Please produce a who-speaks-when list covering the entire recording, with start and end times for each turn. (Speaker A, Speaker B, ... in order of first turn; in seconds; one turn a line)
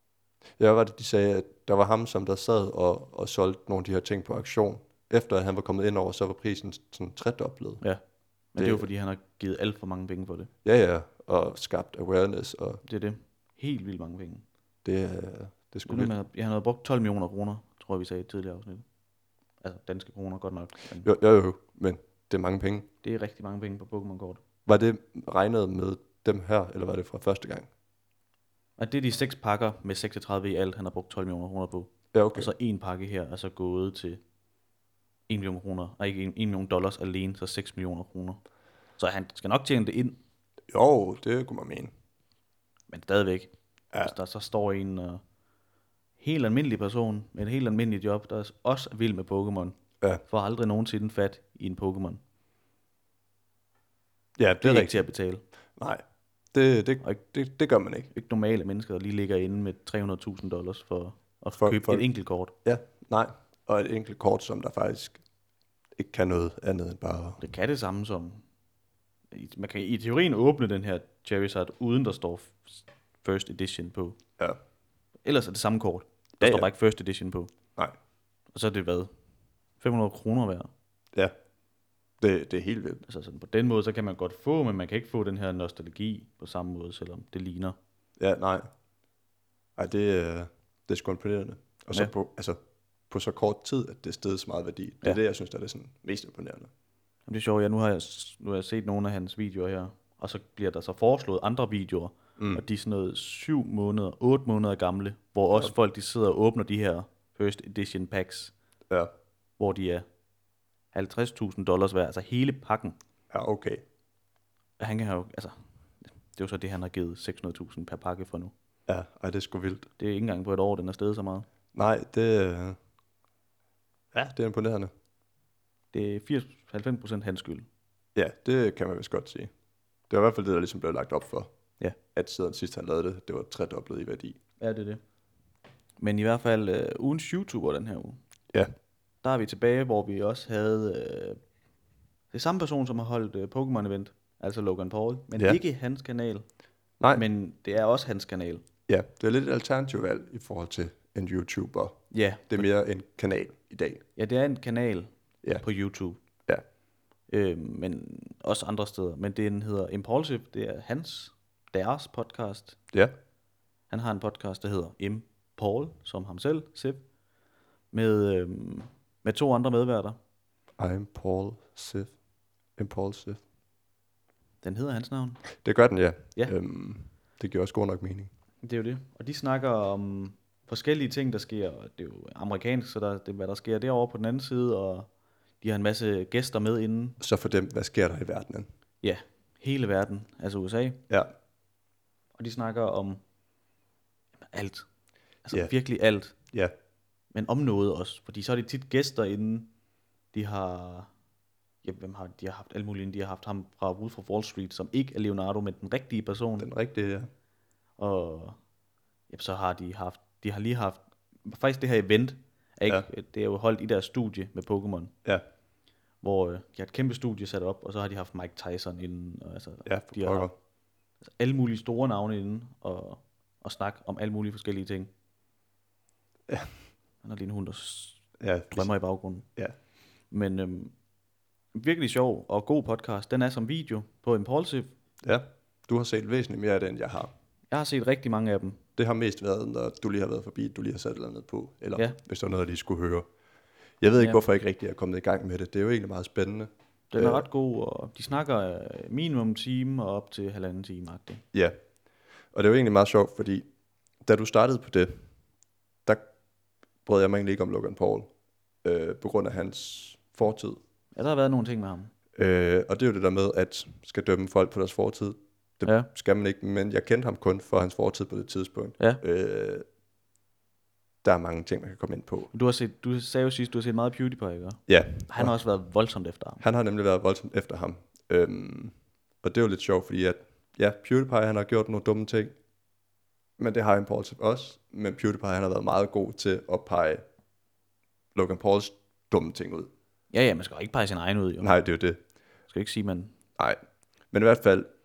Speaker A: 0.6-7.8
Speaker B: 8.5-10.5
Speaker A: 8.6-8.8
Speaker A: 10.7-12.8
Speaker B: 12.8-14.4
Speaker A: 14.8-16.1
Speaker B: 15.9-18.9
Speaker B: 19.6-21.1
Speaker A: 21.0-22.9
Speaker B: 23.0-24.4
Speaker A: 24.7-27.7
Speaker B: 28.8-34.2
Speaker A: 32.1-32.5
Speaker B: 35.3-38.4
Speaker B: 39.0-40.2
Speaker A: 40.7-41.9
Speaker B: 42.9-45.2
Speaker B: 46.2-49.8
Speaker B: 50.3-52.2
Speaker A: 54.4-55.0
Speaker B: 54.6-55.4
Speaker A: 55.8-58.1
Speaker B: 58.1-62.5
Speaker A: 61.6-62.1
Speaker A: 62.6-65.2
Speaker A: 66.0-67.4
Speaker B: 67.4-68.4
Speaker B: 69.3-74.2
Speaker B: 75.2-77.5
Speaker A: 76.4-76.7
Speaker B: 78.5-79.1
Speaker B: 79.8-80.7
Speaker A: 82.2-83.0
Speaker B: 83.1-87.8
Speaker A: 88.2-88.7
Speaker A: 89.8-92.6
Speaker A: 93.1-96.7
Speaker B: 97.3-108.5
Speaker B: 109.6-110.1
Speaker B: 110.9-113.0
Speaker A: 113.3-113.8
Speaker B: 114.8-115.5
Speaker B: 116.1-118.5
Speaker A: 118.9-119.9
Speaker B: 120.0-121.5
Speaker A: 121.7-122.8
Speaker A: 124.1-124.9
Speaker B: 125.9-127.7
Speaker A: 128.2-129.5
Speaker A: 130.1-131.5
Speaker A: 132.1-134.4
Speaker B: 134.6-135.0
Speaker B: 136.0-138.2
Speaker B: 139.2-141.4
Speaker B: 142.3-146.4
Speaker B: 147.1-148.6
Speaker A: 148.9-154.0
Speaker B: 152.1-152.7
Speaker B: 154.2-155.1
Speaker B: 155.6-156.2
Speaker B: 157.3-162.8
Speaker B: 163.9-167.0
Speaker B: 167.9-170.2
Speaker A: 170.8-172.1
Speaker A: 172.8-173.4
Speaker B: 174.6-175.4
Speaker A: 175.6-178.3
Speaker B: 178.6-185.1
Speaker B: 185.6-187.2
Speaker A: 187.2-188.7
Speaker B: 189.0-191.0
Speaker B: 192.4-193.2
Speaker B: 194.5-194.9
Speaker B: 195.4-196.4
Speaker B: 197.3-199.7
Speaker B: 200.3-201.1
Speaker B: 201.8-206.7
Speaker A: 206.6-207.3
Speaker B: 208.0-208.6
Speaker B: 209.3-215.1
Speaker B: 216.2-220.5
Speaker A: 219.9-220.5
Speaker B: 221.4-225.1
Speaker B: 227.2-229.5
Speaker A: 228.4-228.9
Speaker B: 230.3-230.9
Speaker B: 231.8-234.9
Speaker A: 235.2-237.3
Speaker B: 237.7-238.8
Speaker A: 239.0-243.3
Speaker A: 244.0-247.4
Speaker B: 244.2-244.4
Speaker B: 247.1-251.4
Speaker A: 252.5-253.7
Speaker A: 254.2-255.2
Speaker A: 257.1-258.3
Speaker A: 258.8-260.8
Speaker B: 261.1-262.1
Speaker A: 262.4-269.9
Speaker B: 265.8-266.1
Speaker A: 271.2-272.5
Speaker B: 272.5-276.6
Speaker A: 274.9-275.5
Speaker A: 276.6-282.6
Speaker A: 283.6-287.2
Speaker A: 288.4-289.9
Speaker B: 290.3-291.7
Speaker A: 291.6-292.2
Speaker B: 292.7-293.3
Speaker A: 294.3-294.9